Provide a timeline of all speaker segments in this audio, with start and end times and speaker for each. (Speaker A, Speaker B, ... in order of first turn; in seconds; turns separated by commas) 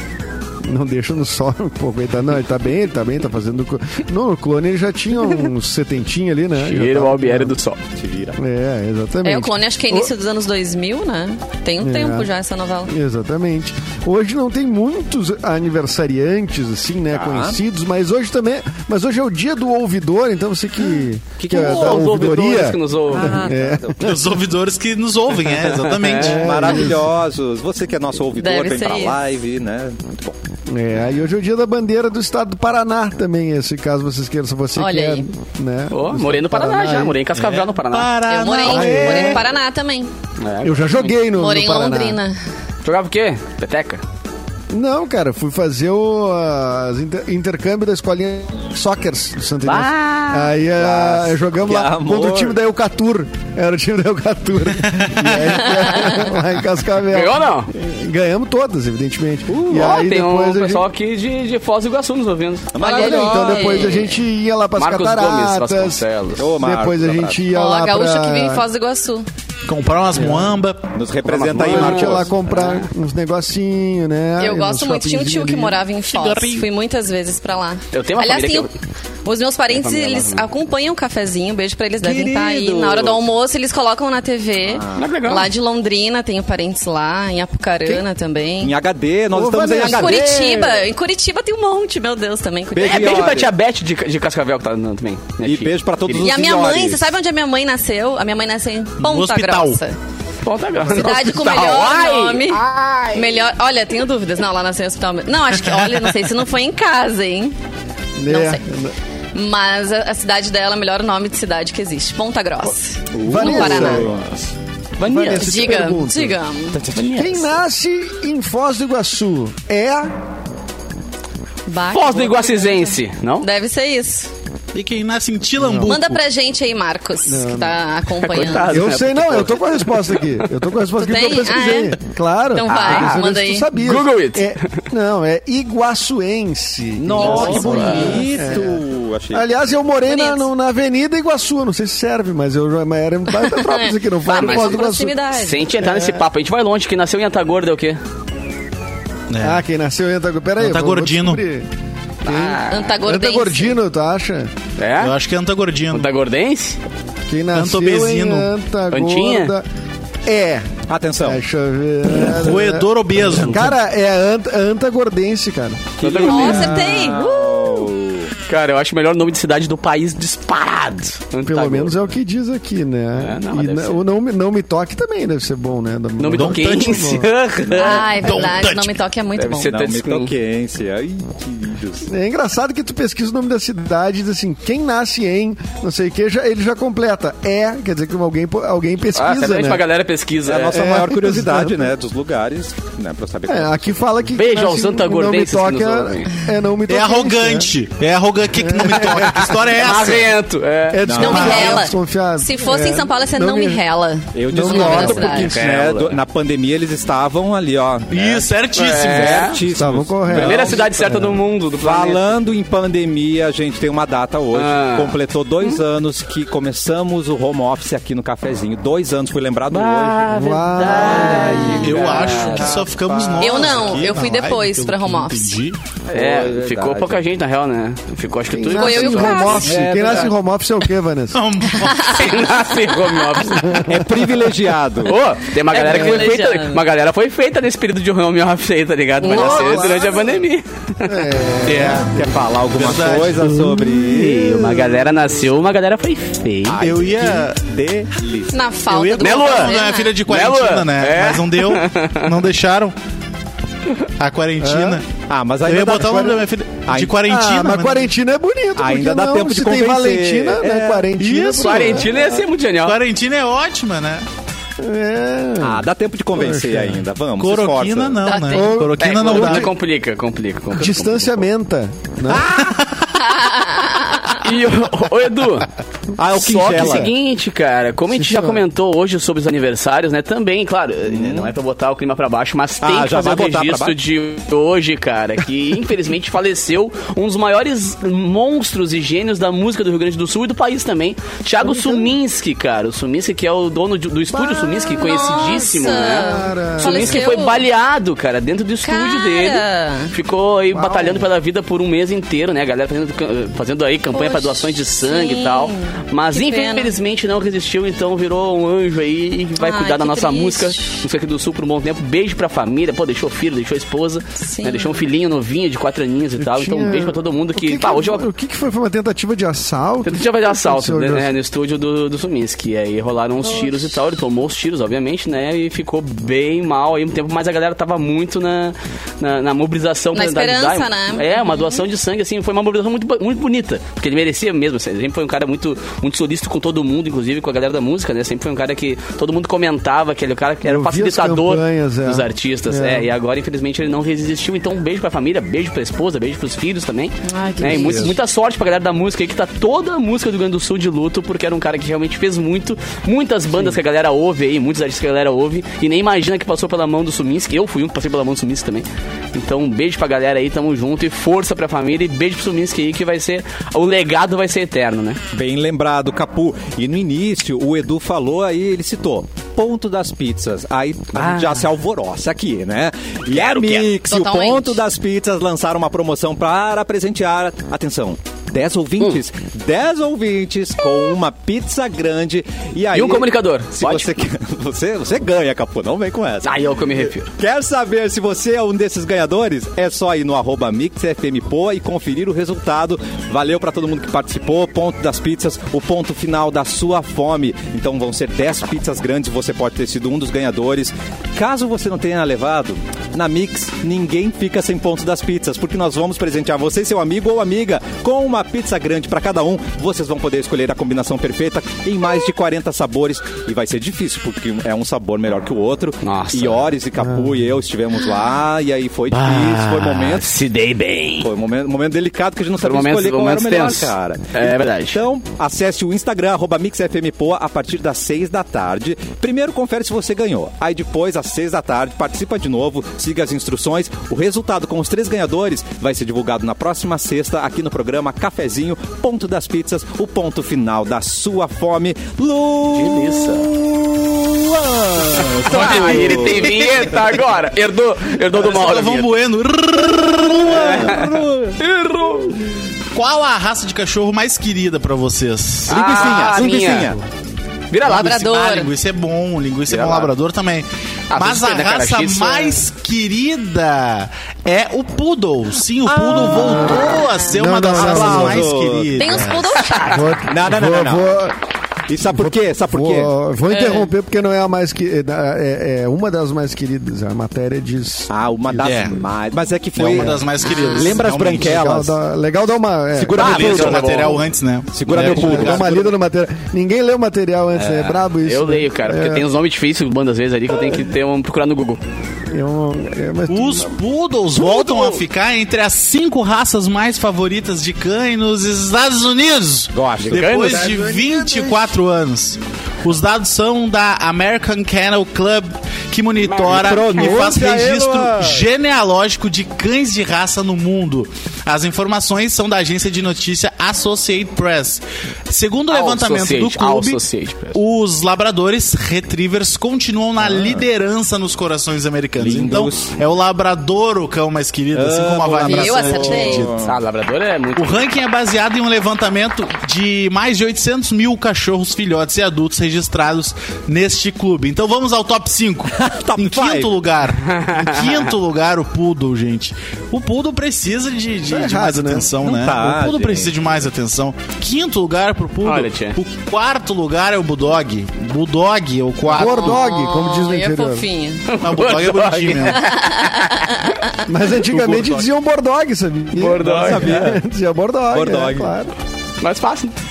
Speaker A: 0.6-7.5, Speaker B: 6.5-7.8, Speaker C: 7.9-8.4, Speaker A: 8.3-10.1, Speaker D: 9.2-12.9, Speaker A: 11.8-12.3, Speaker A: 12.9-24.2, Speaker C: 17.1-17.6, Speaker B: 21.4-23.4, Speaker C: 21.5-22.1, Speaker C: 23.1-24.1, Speaker E: 24.0-26.5, Speaker B: 25.6-26.4, Speaker A: 26.1-27.0, Speaker C: 26.2-30.4, Speaker D: 28.4-29.1, Speaker A: 30.7-37.2, Speaker D: 34.8-35.2, Speaker B: 35.9-38.1, Speaker E: 37.3-39.4, Speaker D: 38.3-40.1, Speaker A: 38.6-39.5, Speaker B: 40.4-41.1, Speaker A: 40.6-42.2, Speaker D: 41.3-42.4, Speaker B: 42.8-44.0, Speaker A: 44.7-60.9, Speaker B: 49.6-50.5, Speaker C: 50.8-52.5, Speaker D: 55.7-56.3, Speaker B: 57.1-57.7, Speaker B: 59.5-62.7, Speaker C: 62.7-64.0, Speaker D: 62.8-64.0, Speaker A: 62.8-66.0, Speaker B: 63.3-64.2, Speaker B: 64.8-66.5, Speaker C: 66.4-67.5, Speaker A: 66.6-68.6, Speaker D: 67.5-69.3, Speaker E: 69.7-70.9, Speaker A: 70.2-70.5, Speaker C: 70.9-72.4, Speaker B: 71.2-72.9, Speaker A: 71.5-75.8, Speaker D: 74.4-78.7, Speaker E: 76.0-76.6, Speaker B: 77.9-78.7, Speaker D: 79.2-88.8, Speaker B: 79.7-80.5, Speaker C: 82.0-83.3, Speaker C: 84.6-85.2, Speaker B: 85.0-85.5, Speaker C: 88.6-90.6, Speaker A: 89.3-90.9, Speaker D: 89.8-93.2, Speaker C: 92.7-93.5, Speaker B: 92.8-96.2, Speaker C: 95.4-97.1, Speaker D: 96.2-99.9, Speaker E: 99.0-99.8, Speaker B: 100.4-103.4, Speaker D: 100.9-107.5, Speaker E: 105.7-106.1, Speaker A: 108.2-108.9, Speaker D: 108.3-108.6, Speaker D: 109.3-114.1, Speaker C: 113.1-114.4, Speaker A: 113.2-114.1, Speaker B: 115.0-115.9, Speaker A: 115.0-116.4, Speaker D: 115.4-116.8, Speaker B: 116.7-117.5, Speaker C: 116.8-117.1, Speaker A: 117.1-120.1, Speaker D: 121.7-124.3, Speaker B: 121.9-123.5, Speaker E: 124.7-126.2, Speaker A: 125.6-126.0, Speaker D: 125.8-128.8, Speaker A: 127.3-127.8, Speaker B: 128.2-130.5, Speaker A: 128.3-145.2, Speaker D: 131.0-132.0, Speaker D: 132.5-133.7, Speaker B: 132.6-134.7, Speaker C: 137.0-139.5, Speaker B: 137.1-138.4, Speaker D: 140.1-140.4, Speaker D: 143.5-145.7, Speaker B: 144.3-148.0, Speaker A: 145.8-146.2, Speaker E: 149.3-149.6, Speaker A: 149.4-151.7, Speaker E: 150.6-151.4, Speaker B: 152.2-153.0, Speaker A: 152.2-154.5, Speaker D: 152.7-153.8, Speaker B: 154.8-155.1, Speaker E: 155.0-156.1, Speaker B: 155.9-156.8, Speaker A: 157.3-159.7, Speaker E: 157.5-158.5, Speaker B: 158.9-159.5, Speaker A: 160.2-166.8, Speaker C: 160.9-161.4, Speaker E: 162.1-163.8, Speaker B: 166.0-167.9, Speaker D: 166.2-167.2, Speaker C: 166.7-168.3, Speaker B: 168.4-171.9, Speaker A: 171.4-177.3, Speaker B: 173.2-174.0, Speaker B: 176.2-178.2, Speaker E: 176.3-177.0, Speaker C: 177.6-178.3, Speaker D: 177.7-179.8, Speaker E: 178.2-179.0, Speaker B: 179.3-180.3, Speaker C: 179.7-182.1, Speaker A: 182.0-189.8, Speaker B: 189.1-190.8, Speaker C: 190.4-194.0, Speaker A: 190.7-191.9, Speaker A: 193.5-197.7, Speaker B: 194.3-196.3, Speaker E: 196.9-200.3, Speaker A: 198.6-199.6, Speaker B: 198.9-201.0, Speaker A: 200.9-203.8, Speaker C: 201.1-201.8, Speaker D: 201.2-205.6, Speaker E: 201.3-201.8, Speaker C: 204.3-221.7, Speaker A: 204.5-205.3, Speaker B: 204.7-206.2, Speaker E: 208.1-209.6, Speaker B: 208.7-209.6, Speaker A: 209.7-211.0, Speaker B: 210.3-212.2, Speaker B: 214.5-215.2, Speaker B: 219.7-222.9, Speaker A: 220.3-222.2, Speaker E: 221.8-225.8, Speaker C: 222.6-224.2, Speaker D: 223.4-225.6, Speaker C: 226.1-227.2, Speaker B: 226.1-229.7, Speaker A: 228.5-231.4, Speaker D: 228.7-229.8, Speaker C: 229.0-230.4, Speaker E: 231.3-232.8, Speaker D: 231.8-232.3, Speaker B: 232.1-233.9, Speaker A: 233.4-234.4, Speaker C: 233.8-235.2, Speaker B: 235.0-241.2, Speaker D: 235.6-236.8, Speaker D: 239.2-240.1, Speaker A: 239.2-240.2, Speaker A: 241.0-242.3, Speaker E: 241.6-242.2, Speaker C: 242.0-245.0, Speaker E: 242.7-243.6, Speaker B: 243.6-246.8, Speaker C: 246.7-248.6, Speaker E: 246.8-247.6, Speaker D: 248.5-250.2, Speaker E: 248.9-252.9, Speaker B: 249.2-252.3, Speaker E: 254.2-255.0, Speaker A: 254.6-255.0, Speaker C: 255.3-256.2, Speaker E: 255.6-258.0, Speaker A: 255.9-256.4, Speaker C: 256.9-257.5, Speaker A: 257.3-262.4, Speaker C: 258.8-261.1, Speaker E: 261.2-262.1, Speaker B: 261.6-263.0, Speaker E: 262.8-264.2, Speaker A: 264.8-267.0, Speaker C: 265.6-268.2, Speaker E: 267.4-269.7, Speaker D: 268.2-268.7, Speaker A: 268.5-269.7, Speaker B: 269.0-271.4, Speaker A: 270.7-272.5, Speaker C: 272.3-272.8, Speaker D: 273.2-274.4, Speaker B: 274.3-275.7, Speaker C: 276.1-277.1, Speaker B: 276.3-318.3, Speaker A: 278.1-278.6, Speaker C: 281.1-281.5, Speaker C: 282.8-284.0, Speaker A: 291.6-292.1, Speaker A: 294.3-297.3, Speaker D: 294.9-297.6, Speaker D: 298.8-300.1, Speaker A: 300.7-301.3, Speaker D: 304.1-306.9, Speaker D: 309.6-311.0, Speaker D: 314.4-315.0, Speaker A: 316.4-321.3, Speaker B: 320.0-365.2, Speaker D: 330.1-331.8, Speaker A: 340.6-343.1, Speaker D: 347.3-348.1, Speaker A: 347.6-348.1, Speaker C: 365.3-420.4, Speaker B: 371.2-371.6, Speaker B: 373.3-373.9, Speaker D: 374.1-374.8, Speaker B: 382.9-384.1, Speaker B: 386.4-387.3, Speaker B: 416.0-416.6, Speaker A: 417.0-417.4, Speaker B: 419.1-421.3, Speaker C: 421.2-447.1, Speaker B: 422.6-425.0, Speaker B: 442.7-443.5, Speaker B: 445.4-449.1, Speaker E: 445.6-446.8, Speaker E: 448.3-451.0, Speaker C: 450.4-451.6, Speaker B: 450.5-452.4, Speaker E: 452.9-456.4, Speaker B: 455.7-457.0, Speaker C: 455.7-457.0, Speaker B: 457.7-458.1, Speaker E: 457.8-469.6, Speaker D: 457.8-458.7, Speaker B: 459.7-460.1, Speaker B: 461.1-462.6, Speaker C: 465.9-467.0, Speaker A: 466.1-468.5, Speaker C: 467.7-469.2, Speaker D: 468.9-470.0, Speaker B: 469.7-470.0, Speaker A: 469.9-471.4, Speaker C: 470.2-471.1, Speaker C: 471.9-473.1, Speaker A: 472.0-478.8, Speaker D: 473.5-473.9, Speaker C: 478.1-481.9, Speaker E: 478.6-479.0, Speaker E: 479.8-481.8, Speaker A: 479.9-480.3, Speaker D: 480.4-480.9, Speaker A: 481.3-483.3, Speaker C: 482.9-484.1, Speaker B: 483.1-484.2, Speaker E: 483.2-485.9, Speaker C: 484.7-485.8, Speaker A: 484.9-489.2, Speaker B: 487.6-491.8, Speaker A: 492.3-493.8, Speaker E: 493.3-517.0, Speaker B: 494.4-495.0, Speaker C: 499.7-500.8, Speaker B: 500.0-500.7, Speaker A: 500.5-501.8, Speaker B: 506.2-506.7, Speaker C: 506.4-508.4, Speaker B: 515.7-517.6, Speaker E: 517.5-526.5, Speaker C: 520.2-520.6, Speaker C: 522.2-523.0, Speaker C: 524.7-526.7, Speaker D: 525.4-526.5, Speaker B: 526.6-527.8, Speaker E: 527.5-549.6, Speaker C: 535.7-536.7, Speaker B: 537.2-538.0, Speaker A: 541.2-542.1, Speaker C: 542.2-543.3, Speaker B: 545.4-546.0, Speaker A: 549.0-550.9, Speaker D: 549.4-551.4, Speaker B: 551.3-553.7, Speaker E: 551.4-552.6, Speaker D: 552.5-553.9, Speaker A: 554.1-558.7, Speaker E: 554.4-555.0, Speaker B: 556.1-557.2, Speaker C: 556.4-557.2, Speaker C: 557.9-558.5, Speaker B: 559.2-559.8